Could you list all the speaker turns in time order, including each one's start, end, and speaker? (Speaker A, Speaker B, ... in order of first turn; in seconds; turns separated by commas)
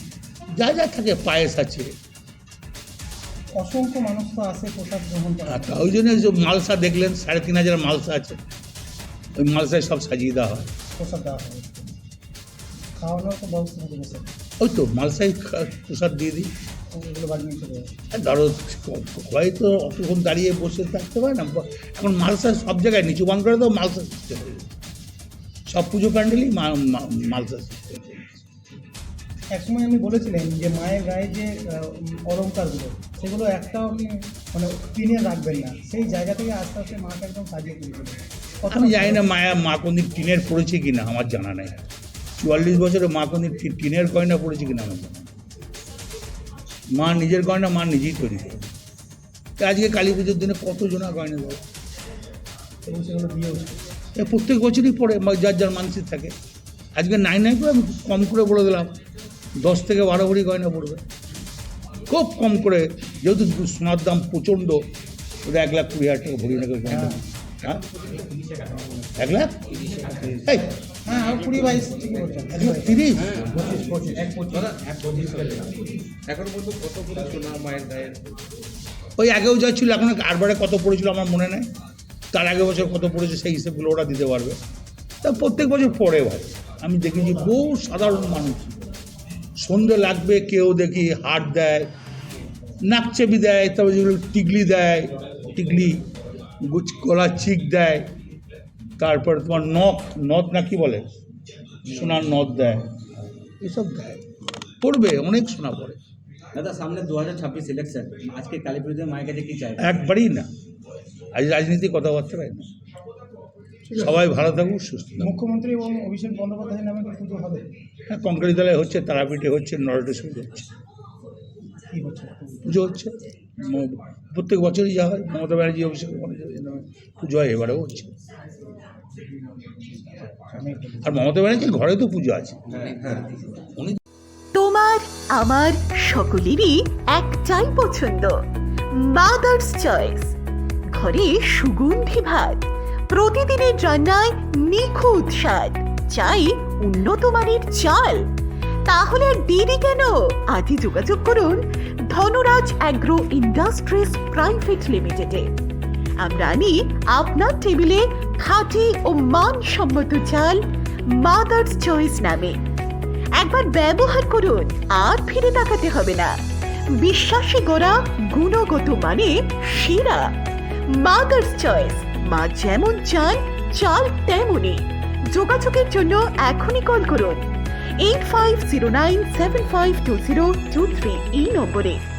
Speaker A: 0.5-1.9, Speaker B: 3.5-5.7, Speaker A: 5.5-8.4, Speaker A: 9.4-10.7, Speaker B: 11.0-11.9, Speaker B: 13.0-14.3, Speaker A: 14.6-16.5, Speaker B: 16.9-17.9, Speaker A: 18.1-24.6, Speaker A: 25.7-28.4, Speaker B: 29.6-39.2, Speaker A: 38.7-41.8, Speaker A: 42.4-45.3, Speaker A: 46.9-48.7, Speaker A: 49.6-51.6, Speaker B: 52.9-53.8, Speaker A: 54.2-56.3, Speaker A: 57.0-58.9, Speaker A: 59.6-61.0, Speaker A: 62.1-64.8, Speaker A: 65.5-67.8, Speaker C: 68.0-69.1, Speaker A: 69.2-69.6, Speaker C: 69.7-75.7, Speaker A: 70.4-70.7, Speaker B: 71.1-73.1, Speaker A: 72.5-73.5, Speaker C: 76.3-78.2, Speaker A: 79.2-81.7, Speaker A: 82.3-84.6, Speaker A: 85.2-88.8, Speaker A: 89.6-91.9, Speaker A: 92.9-96.1, Speaker A: 96.6-98.0, Speaker A: 99.0-101.1, Speaker C: 101.9-102.5, Speaker A: 101.9-102.9, Speaker A: 103.6-104.2, Speaker A: 104.8-106.0, Speaker C: 106.5-110.0, Speaker A: 109.8-110.5, Speaker A: 111.3-112.7, Speaker A: 113.9-115.4, Speaker B: 115.2-117.6, Speaker A: 118.1-120.7, Speaker B: 121.9-122.4, Speaker A: 122.7-128.1, Speaker B: 130.6-131.1, Speaker A: 131.0-132.6, Speaker C: 132.7-133.6, Speaker D: 134.5-138.4, Speaker D: 138.9-140.3, Speaker D: 140.9-148.3, Speaker D: 148.9-155.5, Speaker D: 156.2-162.6, Speaker D: 163.3-166.4, Speaker D: 166.9-170.3, Speaker D: 170.9-177.5, Speaker D: 178.0-182.0